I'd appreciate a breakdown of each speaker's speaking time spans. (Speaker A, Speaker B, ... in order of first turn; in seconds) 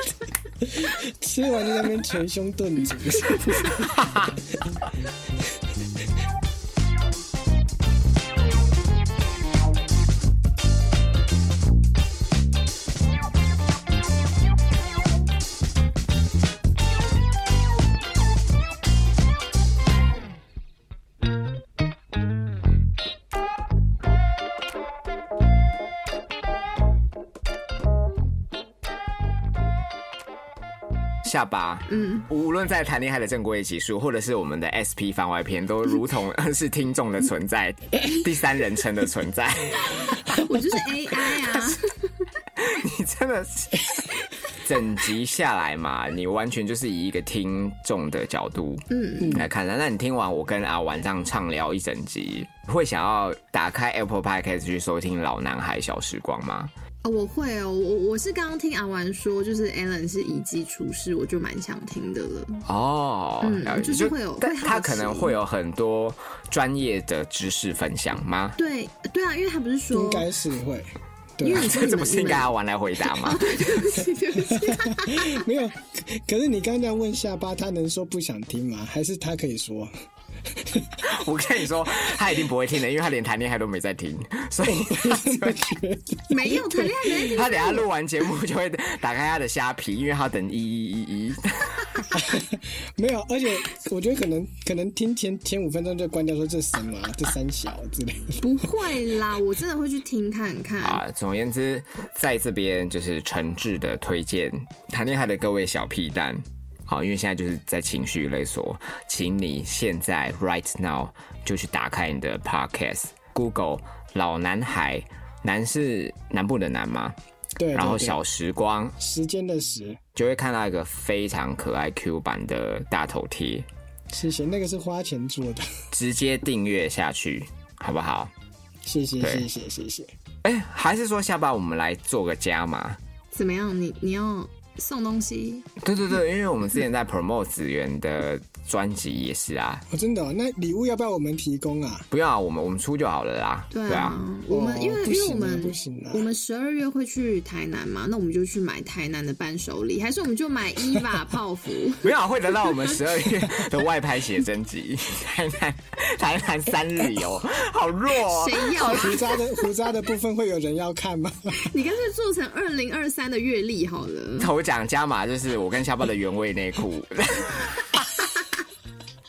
Speaker A: 0.6-4.0, 49.2-49.5, 69.9-71.7, 74.4-79.9, 80.5-81.0, 84.6-87.3, 92.1-98.7, 117.6-118.2, 119.0-120.0, 124.1-125.7, 128.8-130.1, 139.9-142.1, 144.5-146.3, 158.8-161.7
Speaker B: 4.0-4.3, 31.2-40.4, 41.3-41.8, 42.6-56.7, 62.7-68.6, 71.5-73.7, 81.0-85.6, 87.3-92.1, 100.8-117.2, 117.7-119.0, 120.2-123.7, 125.9-128.3, 129.2-129.5, 130.4-133.0, 135.8-139.8, 142.1-144.2, 152.0-159.2, 164.4-168.1
Speaker C: 31.9-32.3, 40.4-42.1, 48.9-49.4, 57.0-62.7, 63.4-65.4, 68.6-70.3, 71.4-72.5, 73.1-75.4, 86.3-87.9, 98.4-101.0, 133.3-135.7, 143.7-152.1, 158.2-159.3, 161.6-164.5